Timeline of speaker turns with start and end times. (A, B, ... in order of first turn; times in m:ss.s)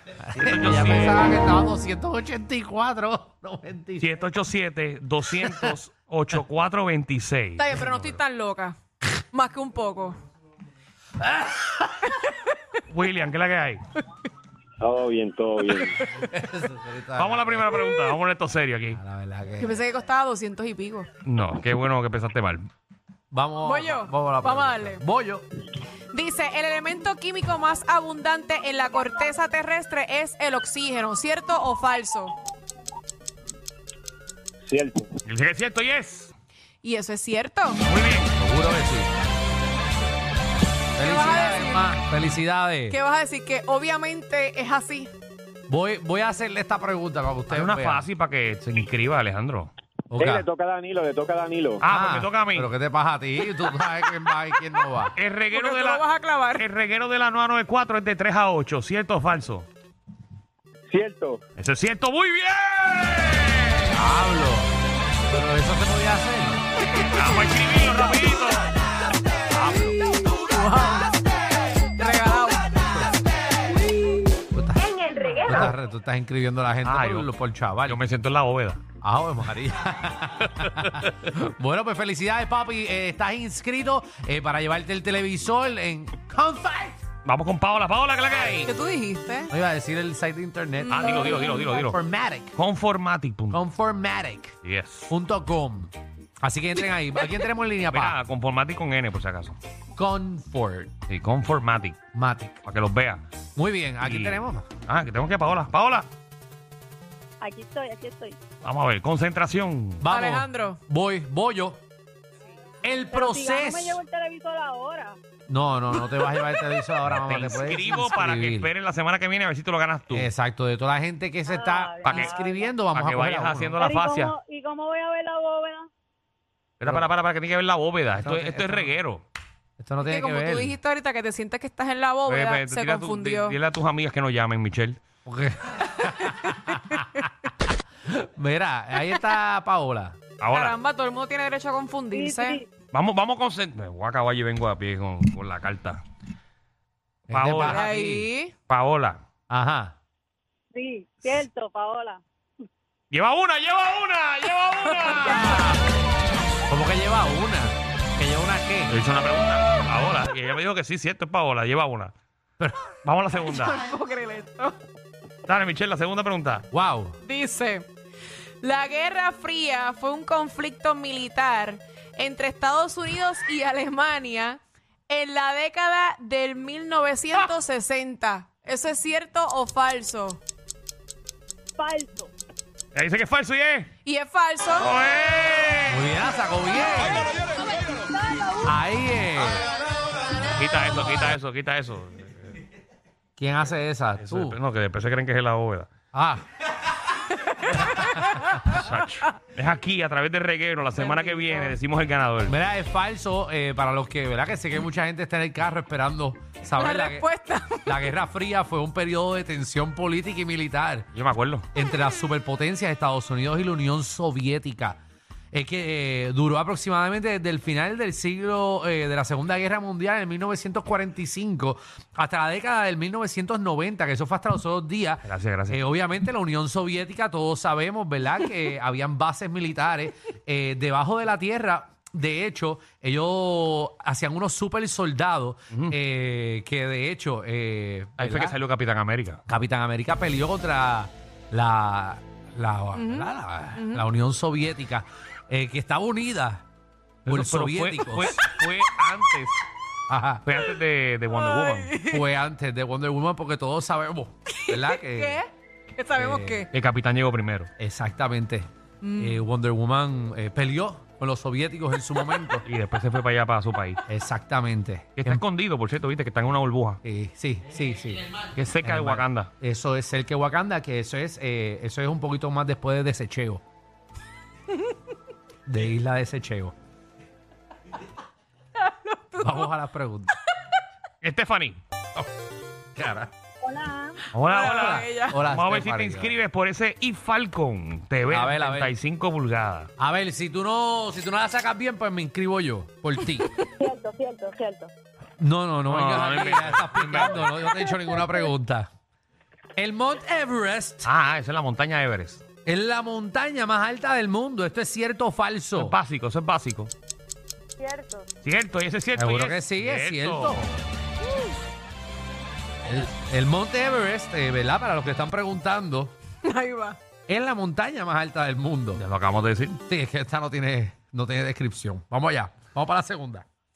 0:00.3-0:04.1 A
0:00.4-0:01.3 B
0:04.0-0:07.9 B
0:07.6-0:08.8 C
0:09.3-0:10.2 C
0:11.2-0:12.1 A
0:12.9-0:13.8 B
0:14.8-0:16.0 D
0:16.2-0:17.8 A
0:17.2-0:19.0 B
0:18.9-0:19.8 A
0:19.6-0:21.1 C
0:21.2-0:22.7 B
0:23.3-0:25.4 A
0:23.6-0:25.0 C
0:26.1-0:32.3 C
0:34.6-0:35.1 D
0:35.2-0:36.3 B
0:36.8-0:37.8 C
0:37.8-0:38.4 B
0:38.4-0:39.1 A
0:41.0-0:43.0 A
0:41.0-0:42.0 C
0:42.9-0:45.1 C
0:45.7-0:48.1 A
0:47.5-0:49.7 B
0:50.1-0:50.4 A
0:50.2-0:51.8 D
0:51.8-0:52.7 B
0:51.8-0:55.2 A
0:55.1-0:56.0 B
0:55.5-0:56.6 C
0:56.5-0:59.7 B
1:00.9-1:01.4 D
1:01.6-1:04.0 B
1:03.9-1:04.7 A
1:05.3-1:06.6 A
1:07.1-1:08.7 B
1:09.5-1:10.0 B
1:10.4-1:11.1 C
1:12.0-1:12.7 C
1:14.5-1:18.0 A
1:15.5-1:15.7 B
1:16.8-1:17.3 B
1:17.8-1:18.8 B
1:19.0-1:27.0 A
1:20.4-1:21.1 B
1:27.2-1:28.7 B
1:28.6-1:29.5 C
1:29.5-1:32.5 A
1:30.8-1:31.7 C
1:30.9-1:32.0 B
1:32.5-1:33.6 B
1:33.5-1:34.5 A
1:34.6-1:35.1 B
1:35.1-1:38.2 A
1:37.8-1:39.6 B
1:40.0-1:41.0 A
1:41.1-1:42.0 B
1:42.1-1:42.6 A
1:42.6-1:43.2 B
1:43.6-1:44.7 A
1:44.0-1:46.1 B
1:47.4-1:48.4 E
1:48.6-1:50.0 B
1:50.0-1:51.8 A
1:50.1-1:50.8 C
1:52.8-1:54.0 A
1:53.1-1:55.2 E
1:55.5-1:58.7 A
1:57.1-2:00.3 B
2:00.1-2:03.8 A
2:01.5-2:02.5 E
2:02.0-2:04.3 B
2:03.8-2:05.9 E
2:06.8-2:09.2 B
2:08.2-2:08.9 A
2:09.8-2:10.8 A
2:10.0-2:13.6 C
2:12.2-2:15.0 B
2:15.2-2:17.1 A
2:16.2-2:17.3 C
2:18.0-2:20.2 A
2:20.4-2:20.8 B
2:20.5-2:22.6 C
2:22.1-2:22.5 E
2:22.9-2:26.0 B
2:27.3-2:27.8 B
2:27.3-2:28.3 A
2:27.6-2:28.5 C
2:28.7-2:29.2 B
2:29.5-2:30.0 A
2:30.7-2:32.2 E
2:33.1-2:35.8 B
2:34.9-2:35.7 C
2:35.4-2:35.7 A
2:36.7-2:39.0 A
2:38.9-2:42.1 B
2:42.6-2:42.9 A
2:43.0-2:43.8 B
2:43.5-2:44.8 C
2:45.4-2:46.7 B
2:46.7-2:47.2 A
2:47.2-2:47.9 C
2:48.6-3:00.4 C
3:01.8-3:02.3 E
3:02.9-3:03.9 B
3:04.0-3:04.9 C
3:04.8-3:06.1 B
3:05.9-3:07.3 A
3:08.0-3:08.6 E
3:08.6-3:09.7 A
3:10.6-3:12.6 B
3:13.4-3:14.6 A
3:14.2-3:15.9 B
3:16.1-3:16.4 A
3:17.4-3:18.8 C
3:18.6-3:22.6 B
3:21.0-3:21.8 C
3:22.5-3:27.3 A
3:26.8-3:28.0 C
3:27.8-3:31.1 A
3:31.1-3:31.6 B
3:31.7-3:35.0 A
3:35.5-3:58.6 A
3:45.2-3:45.8 B
3:58.2-3:59.4 B
3:59.5-4:06.6 A
4:02.9-4:04.0 C
4:07.2-4:08.4 A
4:07.2-4:09.6 B
4:10.1-4:10.4 A
4:10.4-4:12.0 B
4:11.4-4:12.3 C
4:12.0-4:15.4 A
4:14.6-4:16.7 C
4:16.2-4:16.7 A
4:16.7-4:17.7 B
4:17.8-4:22.6 A
4:19.0-4:19.4 C
4:22.6-4:24.0 B
4:24.1-4:25.4 A
4:25.2-4:27.0 B
4:27.0-4:28.3 A
4:28.5-4:29.5 B
4:28.8-4:33.6 A
4:35.6-4:36.7 A
4:38.8-4:39.7 C
4:39.4-4:40.3 A
4:41.2-4:41.8 B
4:43.0-4:43.3 A
4:43.6-4:44.2 E
4:44.3-4:49.9 B
4:44.5-4:45.4 C
4:44.7-4:46.4 A
4:48.3-4:48.9 A
4:50.0-4:53.5 A
4:53.8-4:54.9 E
4:55.4-4:58.9 A
4:55.8-4:57.8 B
4:59.8-5:01.1 A
5:01.0-5:02.4 B
5:02.6-5:06.0 A
5:05.8-5:06.9 B
5:07.8-5:08.2 E
5:08.4-5:10.8 B
5:09.1-5:10.8 A
5:12.8-5:16.1 A
5:16.4-5:17.0 C
5:17.3-5:19.0 A
5:18.9-5:19.8 B
5:19.9-5:23.4 A